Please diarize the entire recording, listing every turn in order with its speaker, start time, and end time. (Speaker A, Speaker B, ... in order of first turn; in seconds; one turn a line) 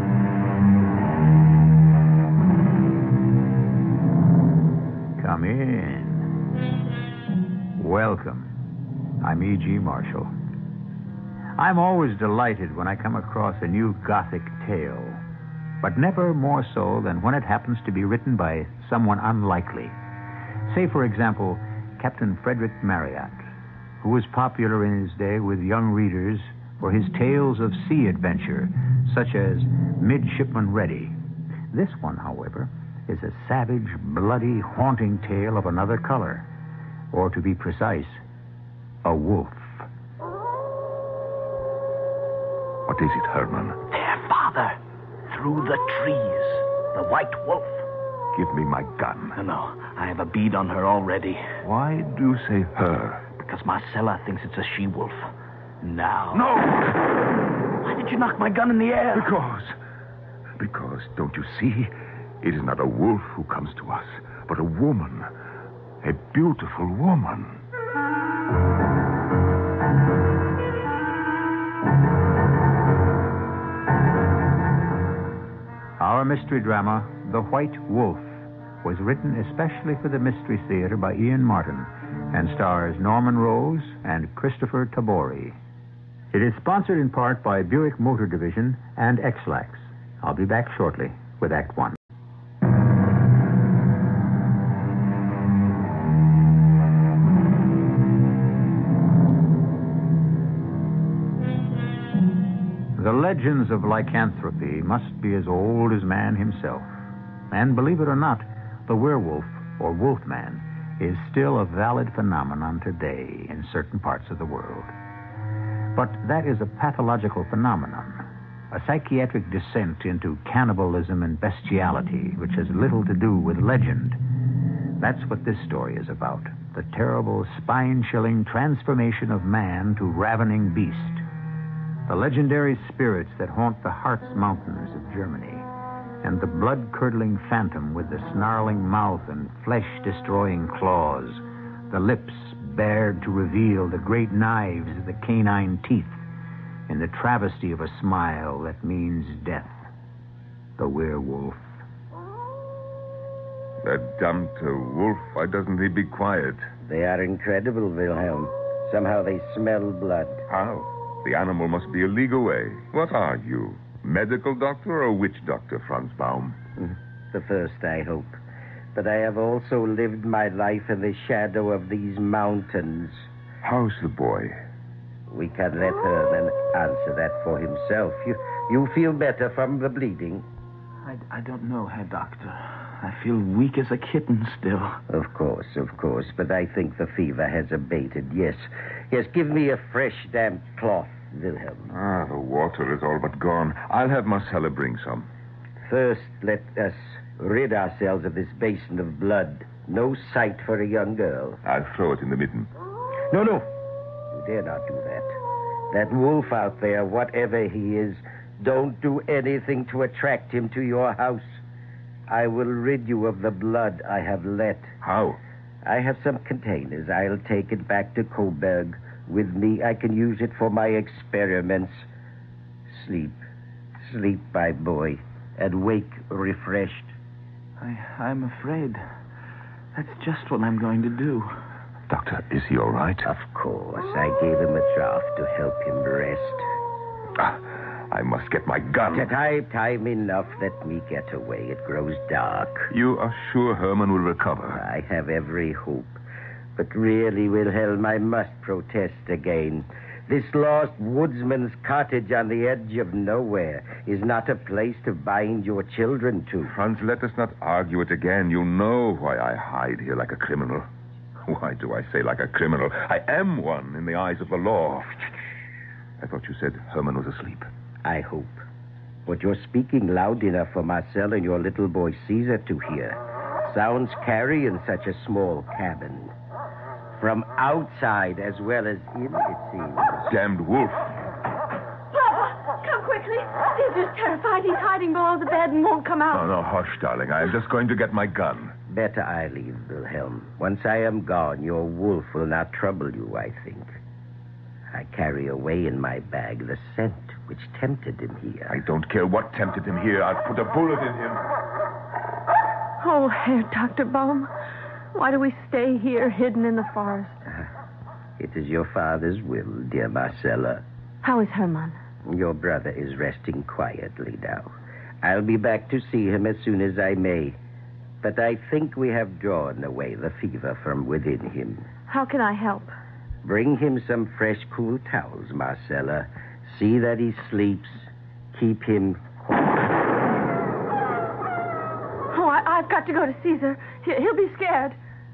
Speaker A: 5.2-6.3
Speaker A: 7.8-8.5
Speaker A: 9.2-10.3
Speaker A: 11.6-15.2
Speaker A: 15.8-20.0
Speaker A: 20.7-23.4
Speaker A: 24.0-31.2
Speaker A: 31.7-36.5
Speaker A: 37.1-38.2
Speaker A: 39.0-39.9
Speaker B: 42.9-43.8
Speaker C: 43.9-47.9
Speaker B: 48.3-49.4
Speaker C: 49.4-51.5
Speaker B: 51.6-53.2
Speaker C: 53.4-56.5
Speaker B: 56.3-56.9
Speaker C: 57.8-59.3
Speaker B: 59.1-59.8
Speaker B: 60.6-65.3
Speaker B: 66.0-67.6
Speaker A: 76.0-85.6
Speaker A: 86.3-92.0
Speaker A: 103.0-106.9
Speaker A: 107.5-114.9
Speaker A: 115.9-124.2
Speaker A: 125.0-131.2
Speaker A: 132.1-135.7
Speaker A: 136.2-146.2
Speaker A: 146.9-149.8
Speaker A: 150.8-151.7
Speaker B: 153.8-156.7
Speaker D: 156.8-160.4
Speaker B: 160.5-166.6
Speaker D: 167.3-168.4
Speaker D: 168.9-173.2
Speaker B: 173.6-174.6
Speaker D: 175.3-180.4
Speaker C: 181.1-185.0
Speaker D: 185.1-191.9
Speaker B: 191.9-195.3
Speaker D: 195.9-201.6
Speaker B: 201.7-202.7
Speaker B: 203.3-203.6
Speaker D: 204.3-205.3
Speaker D: 205.9-211.6
Speaker D: 212.3-214.9
Speaker B: 215.0-215.4
Speaker D: 215.8-222.0
Speaker D: 222.9-223.4
Speaker D: 224.1-227.1
Speaker C: 227.8-229.0
Speaker C: 229.9-231.6
Speaker B: 232.1-233.3
Speaker D: 233.2-236.7
Speaker B: 237.4-239.3
Speaker D: 239.1-242.9
Speaker B: 242.9-244.8
Speaker D: 244.7-246.2
Speaker D: 246.8-256.7
Speaker B: 256.7-260.9
Speaker B: 261.5-265.4
Speaker B: 266.2-267.7
Speaker D: 268.0-268.6
Speaker D: 269.3-276.3
Speaker D: 277.2-280.3
Speaker B: 280.3-281.1
Speaker E: 282.1-286.5
Speaker B: 286.3-288.7
Speaker D: 288.9-293.9
Speaker D: 294.9-298.8
Speaker B: 298.7-301.5
Speaker E: 303.0-304.5
Speaker E: 305.1-307.4
Speaker D: 308.4-310.8
Speaker E: 311.2-312.0
Speaker D: 312.3-314.7
Speaker D: 315.2-317.6
Speaker D: 318.2-321.9
Speaker E: 322.1-322.9
Speaker D: 323.4-329.3
Speaker E: 332.3-335.0